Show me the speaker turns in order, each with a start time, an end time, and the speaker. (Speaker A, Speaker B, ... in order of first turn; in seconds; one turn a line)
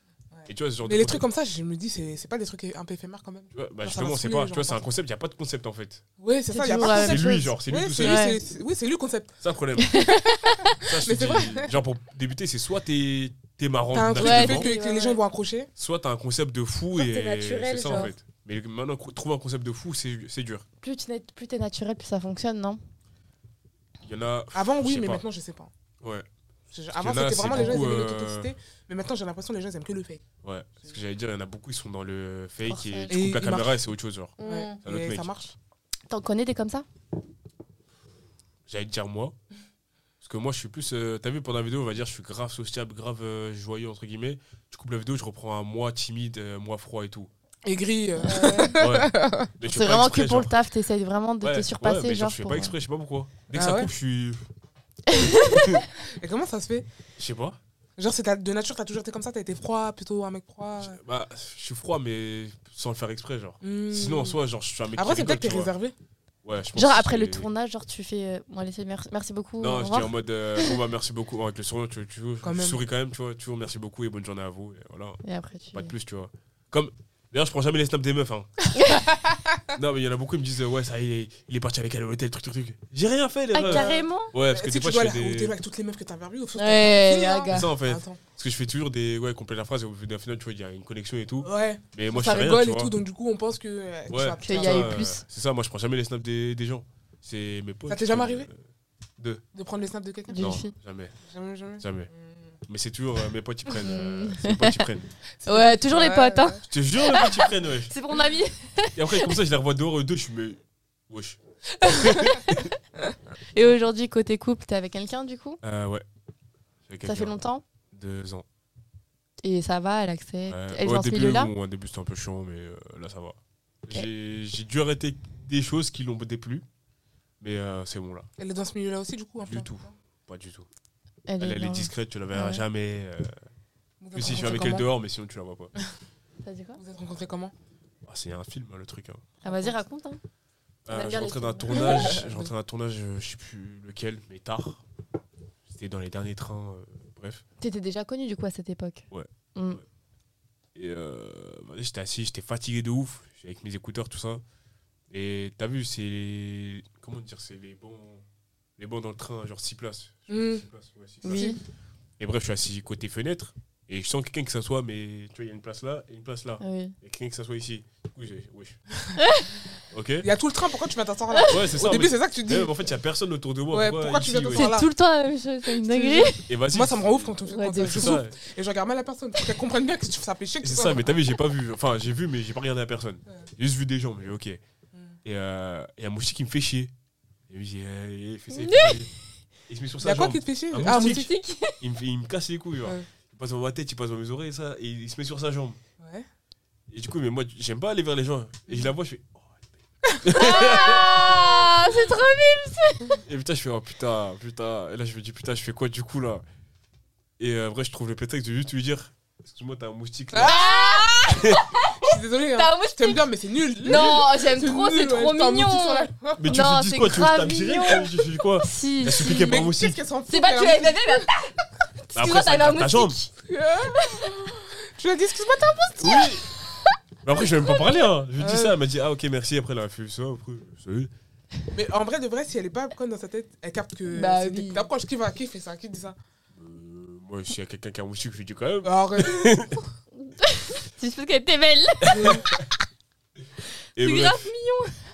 Speaker A: 0.3-4.8
Speaker B: 0.5-1.2
Speaker B: 3.5-6.0
Speaker A: 6.2-9.4
Speaker C: 6.5-8.4
Speaker B: 6.8-8.3
Speaker B: 9.4-10.0
Speaker C: 9.8-10.8
Speaker A: 10.1-11.8
Speaker B: 10.8-14.7
Speaker A: 13.9-15.7
Speaker C: 14.2-15.2
Speaker B: 15.8-20.7
Speaker C: 16.9-18.1
Speaker C: 20.8-22.8
Speaker B: 24.0-25.2
Speaker A: 24.5-25.7
Speaker B: 26.0-26.3
Speaker A: 26.7-30.2
Speaker B: 26.9-28.5
Speaker C: 27.6-27.9
Speaker B: 30.4-35.3
Speaker C: 32.6-33.2
Speaker A: 33.1-33.8
Speaker C: 34.4-34.8
Speaker A: 34.4-35.5
Speaker C: 36.1-36.9
Speaker B: 38.7-39.4
Speaker B: 40.2-47.3
Speaker A: 47.6-49.5
Speaker C: 48.2-48.8
Speaker B: 48.8-50.5
Speaker C: 49.6-52.7
Speaker B: 51.4-54.5
Speaker A: 53.5-53.9
Speaker C: 55.1-55.8
Speaker B: 55.3-55.9
Speaker A: 56.0-56.9
Speaker B: 57.2-57.6
Speaker A: 58.0-61.0
Speaker B: 60.8-65.7
Speaker A: 63.6-64.4
Speaker A: 65.0-65.9
Speaker B: 66.4-67.5
Speaker C: 66.8-70.1
Speaker B: 69.6-75.2
Speaker A: 72.4-72.8
Speaker C: 75.2-75.9
Speaker B: 75.7-78.7
Speaker C: 78.8-79.1
Speaker B: 79.7-85.6
Speaker C: 83.5-84.3
Speaker A: 83.6-88.2
Speaker C: 86.6-87.7
Speaker B: 87.5-92.9
Speaker A: 91.4-95.0
Speaker B: 94.1-98.6
Speaker C: 94.4-95.2
Speaker A: 97.9-98.5
Speaker B: 99.2-99.4
Speaker A: 99.5-100.5
Speaker C: 100.3-100.7
Speaker B: 100.4-101.2
Speaker A: 101.2-102.4
Speaker B: 101.8-102.1
Speaker B: 102.7-105.1
Speaker C: 103.8-104.8
Speaker A: 105.4-106.7
Speaker C: 105.5-109.3
Speaker B: 106.7-107.9
Speaker B: 109.0-112.7
Speaker A: 111.8-112.4
Speaker C: 113.5-115.6
Speaker B: 115.6-116.0
Speaker B: 116.9-118.5
Speaker C: 117.0-117.6
Speaker C: 119.4-121.5
Speaker B: 120.5-126.7
Speaker B: 127.4-128.3
Speaker A: 128.4-129.9
Speaker B: 129.5-130.7
Speaker C: 131.3-132.6
Speaker B: 131.4-133.3
Speaker A: 134.0-134.9
Speaker B: 134.2-135.7
Speaker C: 136.4-136.8
Speaker A: 136.8-137.5
Speaker B: 138.1-139.3
Speaker A: 139.4-139.8
Speaker C: 139.4-140.2
Speaker B: 140.9-144.8
Speaker C: 140.9-142.2
Speaker A: 141.7-142.5
Speaker B: 145.7-147.4
Speaker C: 147.6-149.8
Speaker B: 149.1-149.8
Speaker B: 150.8-154.4
Speaker B: 155.1-158.2
Speaker B: 158.8-161.6
Speaker A: 160.3-160.7
Speaker C: 161.2-161.6
Speaker A: 161.3-161.6
Speaker B: 162.2-168.8
Speaker C: 166.6-166.9
Speaker C: 169.2-169.5
Speaker B: 169.9-170.3
Speaker A: 170.2-172.7
Speaker B: 171.5-174.8
Speaker A: 173.7-174.9
Speaker C: 174.5-176.4
Speaker A: 175.7-181.1
Speaker B: 176.5-178.3
Speaker C: 177.5-178.2
Speaker B: 180.6-184.6
Speaker B: 185.2-186.9
Speaker B: 187.5-189.1
Speaker C: 188.5-189.0
Speaker B: 189.7-195.8
Speaker A: 190.0-191.3
Speaker C: 190.8-191.8
Speaker A: 196.0-196.3
Speaker B: 196.9-201.6
Speaker C: 200.3-203.2
Speaker B: 203.2-206.4
Speaker B: 207.4-210.6
Speaker A: 210.3-211.2
Speaker C: 210.4-213.2
Speaker B: 211.3-211.7
Speaker A: 212.0-216.4
Speaker C: 213.8-219.7
Speaker B: 216.4-220.0
Speaker A: 219.1-221.3
Speaker C: 220.3-223.3
Speaker B: 222.2-223.2
Speaker A: 223.5-226.3
Speaker C: 223.9-224.6
Speaker B: 225.9-226.5
Speaker B: 227.2-231.1
Speaker A: 228.4-228.8
Speaker A: 231.7-236.2
Speaker C: 234.1-234.9
Speaker B: 236.5-239.8
Speaker A: 238.8-239.7
Speaker C: 240.2-242.4
Speaker B: 242.0-242.6
Speaker A: 242.1-242.6
Speaker B: 244.0-244.5
Speaker C: 244.0-245.0